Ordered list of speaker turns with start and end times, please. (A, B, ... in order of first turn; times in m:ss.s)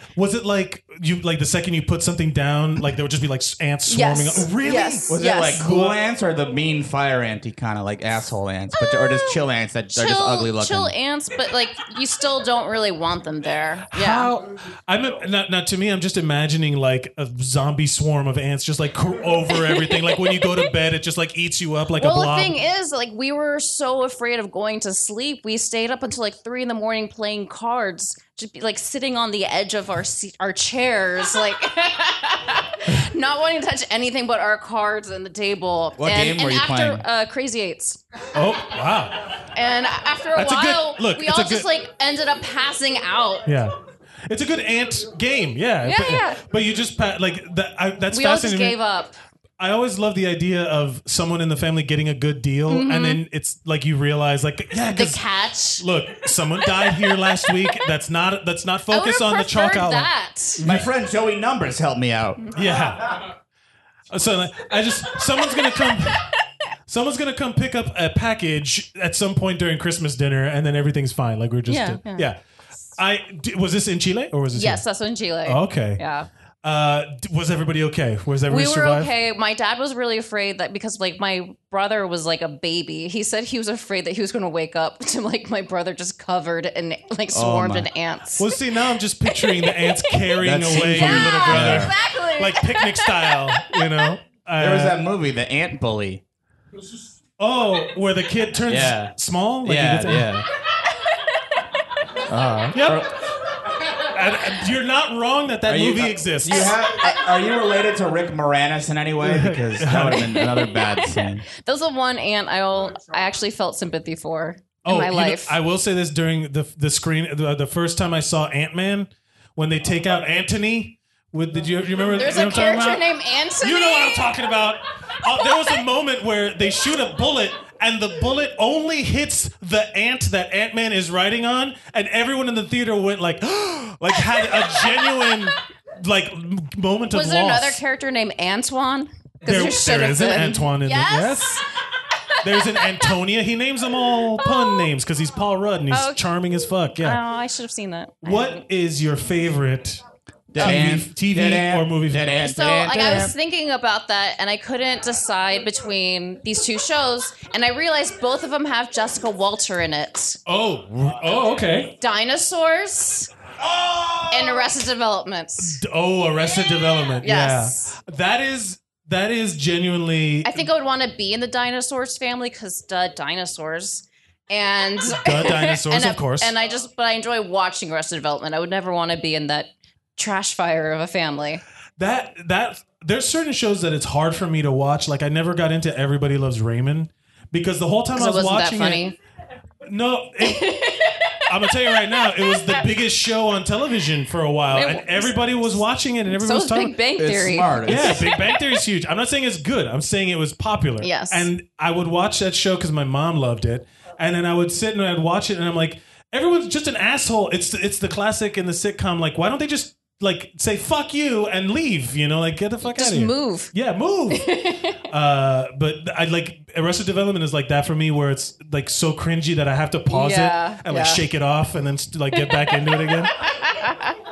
0:00.2-0:06.0 A
0:03.9-0:05.6 B
0:05.1-0:10.9 C
0:08.7-0:09.4 B
0:09.9-0:14.3 B
0:13.9-0:22.6 A
0:19.5-0:20.6 B
0:22.0-0:38.0 B
0:36.0-0:37.0 C
0:38.3-0:39.3 A
0:39.5-0:43.4 B
0:40.3-0:41.7 A
0:43.4-0:43.7 A
0:44.3-0:48.8 A
0:45.8-0:46.4 B
0:48.1-0:49.1 B
0:49.6-0:55.2 A
0:52.7-0:53.2 B
0:54.9-0:55.8 B
0:55.8-1:00.8 A
0:58.9-1:00.6 B
1:00.6-1:02.4 C
1:02.5-1:03.2 A
1:04.1-1:06.2 A
1:06.9-1:12.4 A
1:11.7-1:12.3 B
1:13.0-1:14.8 A
1:14.5-1:16.3 B
1:15.4-1:16.0 A
1:16.6-1:19.1 A
1:18.5-1:28.6 B
1:27.3-1:27.9 C
1:28.4-1:35.0 A
1:29.4-1:30.1 B
1:30.4-1:31.9 C
1:30.8-1:33.6 B
1:34.6-1:36.2 C
1:37.4-1:40.4 A
1:38.7-1:39.1 C
1:39.6-1:40.4 C
1:42.3-1:43.1 C
1:42.7-1:43.1 A
1:44.0-1:46.7 A
1:45.7-1:51.4 C
1:46.5-1:47.2 B
1:49.2-1:50.3 A
1:50.3-1:55.6 B
1:54.8-2:03.0 A
2:02.1-2:04.3 B
2:03.6-2:17.8 A
2:05.4-2:05.8 B
2:14.4-2:15.4 B
2:17.1-2:21.6 B
2:19.4-2:21.6 A
2:22.4-2:27.2 A
2:22.4-2:23.1 B
2:24.4-2:24.9 B
2:25.9-2:26.2 B
2:27.0-2:28.6 B
2:28.2-2:30.0 A
2:30.5-2:33.3 C
2:30.6-2:30.8 B
2:30.6-2:32.3 A
2:32.4-2:40.4 B
2:40.4-2:41.9 A
2:42.0-2:43.3 B
2:44.3-2:45.8 B
2:45.6-2:50.7 A
2:47.2-2:48.0 B
2:50.4-3:01.6 B
2:55.0-2:56.5 A
3:02.0-3:09.0 A
3:08.1-3:09.2 B
3:09.8-3:10.6 A
3:10.4-3:11.4 B
3:11.5-3:17.0 A
3:11.9-3:12.8 B
3:14.7-3:18.6 B
3:17.2-3:18.3 C
3:17.8-3:34.5 A
3:21.0-3:21.5 B
3:32.8-3:33.7 B
3:34.3-3:35.0 B
3:35.1-3:43.3 A
3:40.1-3:41.2 B
3:42.3-3:42.9 B
3:43.5-3:44.1 B